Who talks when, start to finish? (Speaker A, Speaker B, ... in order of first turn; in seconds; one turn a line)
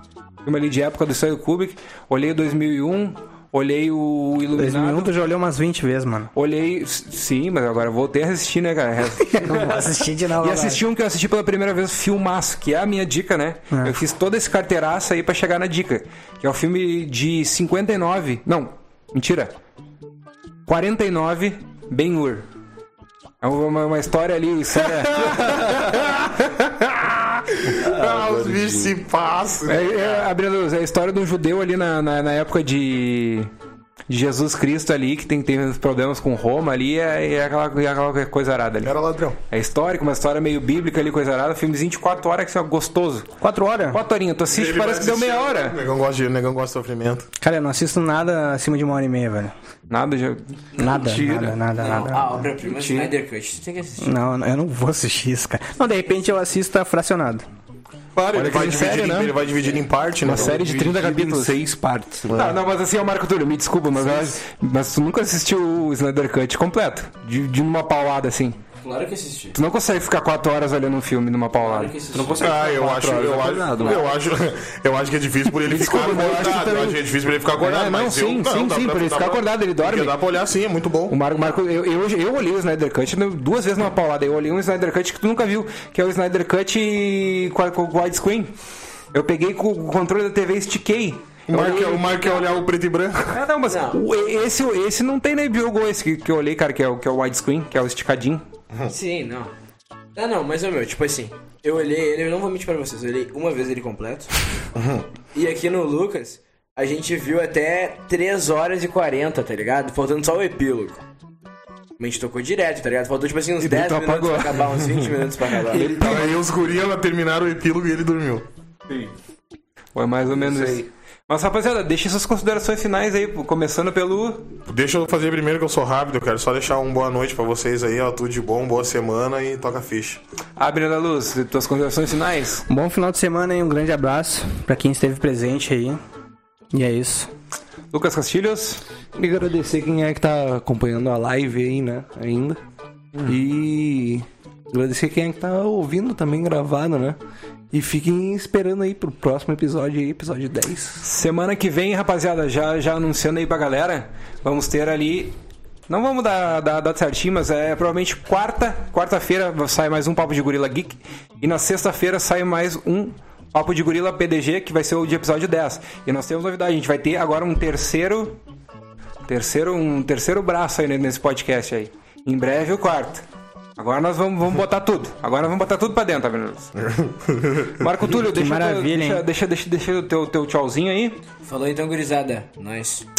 Speaker A: 0.5-5.1
Speaker B: 4.5-6.3
Speaker A: 6.3-9.9
Speaker B: 9.2-10.8
Speaker A: 10.4-19.5
Speaker B: 13.7-14.0
Speaker A: 20.7-22.5
Speaker A: 23.4-25.6
Speaker C: 25.0-30.3
Speaker D: 27.7-28.9
Speaker A: 29.6-33.5
Speaker A: 34.1-38.9
Speaker C: 38.8-39.4
Speaker A: 39.5-43.3
Speaker B: 43.4-44.0
Speaker A: 43.9-45.8
Speaker C: 44.5-47.3
Speaker B: 47.4-49.5
Speaker A: 49.9-50.5
Speaker B: 50.8-52.5
Speaker D: 50.8-51.6
Speaker E: 51.8-54.1
Speaker D: 52.6-53.1
Speaker B: 54.0-57.5
Speaker C: 58.1-60.6
Speaker A: 58.3-59.4
Speaker A: 60.2-61.6
Speaker D: 60.2-62.6
Speaker A: 62.3-68.6
Speaker E: 68.8-69.6
Speaker A: 69.5-72.0
Speaker E: 71.6-72.6
Speaker D: 72.1-74.0
Speaker C: 72.4-81.2
Speaker E: 73.8-74.1
Speaker A: 75.6-77.0
Speaker A: 77.6-80.2
Speaker A: 81.1-88.5
Speaker A: 89.1-92.4
Speaker C: 91.5-93.4
Speaker A: 93.3-98.4
Speaker E: 93.7-94.1
Speaker E: 98.9-99.5
Speaker E: 100.2-104.3
Speaker C: 104.8-105.1
Speaker E: 105.3-111.0
Speaker E: 112.0-116.1
Speaker A: 113.6-114.7
Speaker D: 115.7-116.4
Speaker A: 115.8-116.3
Speaker C: 115.8-118.5
Speaker A: 120.0-124.5
Speaker D: 120.4-120.9
Speaker C: 124.7-130.2
Speaker A: 130.6-132.7
Speaker B: 132.7-136.0
Speaker B: 136.7-137.3
Speaker A: 137.9-138.8
Speaker D: 139.2-142.6
Speaker D: 143.2-147.2
Speaker D: 147.7-151.0
Speaker A: 151.0-155.4
Speaker A: 155.9-168.4
Speaker A: 169.3-173.2
Speaker A: 173.8-176.7
Speaker C: 176.8-177.8
Speaker A: 177.8-181.2
Speaker B: 178.1-179.3
Speaker E: 181.4-183.1